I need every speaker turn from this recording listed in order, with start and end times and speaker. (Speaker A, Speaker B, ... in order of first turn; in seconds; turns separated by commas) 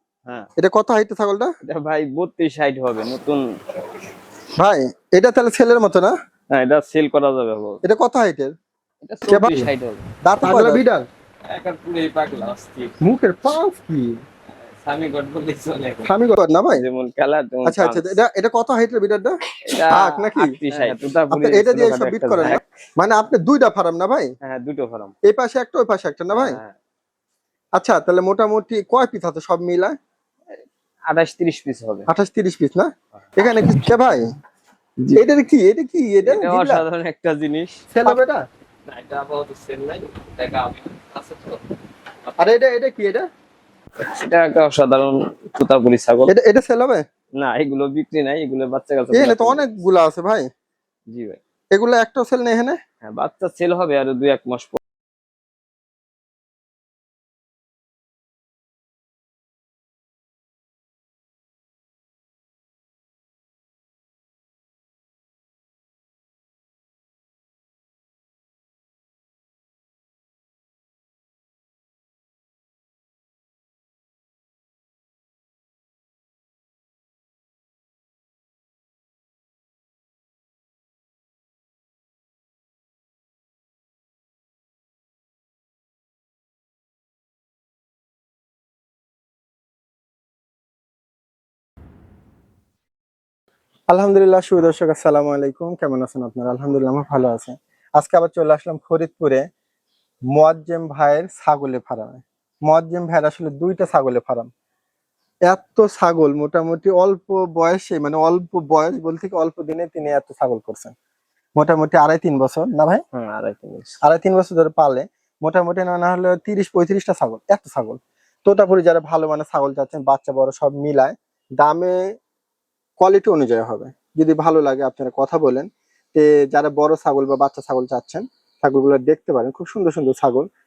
Speaker A: 0.6-1.5, Speaker B: 1.7-3.4, Speaker A: 4.6-6.1, Speaker B: 6.5-7.8, Speaker A: 7.8-8.5, Speaker B: 9.1-10.8, Speaker A: 9.3-9.7, Speaker A: 10.2-11.1, Speaker B: 11.5-13.0, Speaker A: 13.0-14.1, Speaker B: 14.6-16.1, Speaker A: 16.1-16.8, Speaker B: 16.8-18.2, Speaker A: 17.6-19.4, Speaker B: 19.7-22.6, Speaker A: 19.9-24.3, Speaker B: 24.4-25.1, Speaker A: 25.2-26.6, Speaker B: 26.3-26.8, Speaker A: 27.8-30.0, Speaker B: 30.6-32.1, Speaker A: 32.1-34.2, Speaker B: 33.4-34.0, Speaker A: 35.2-36.8, Speaker B: 36.2-37.8, Speaker A: 37.9-38.4, Speaker B: 38.9-41.7, Speaker B: 42.2-42.6, Speaker A: 42.4-43.3, Speaker B: 44.1-46.3, Speaker A: 46.3-47.0, Speaker B: 47.4-49.7, Speaker A: 49.1-50.5, Speaker B: 51.1-51.4, Speaker A: 51.7-52.8, Speaker B: 53.0-54.8, Speaker A: 93.9-99.5, Speaker A: 100.3-104.5, Speaker A: 105.5-111.0, Speaker A: 111.6-113.0, Speaker B: 113.1-114.0, Speaker A: 114.0-122.0, Speaker A: 123.0-130.5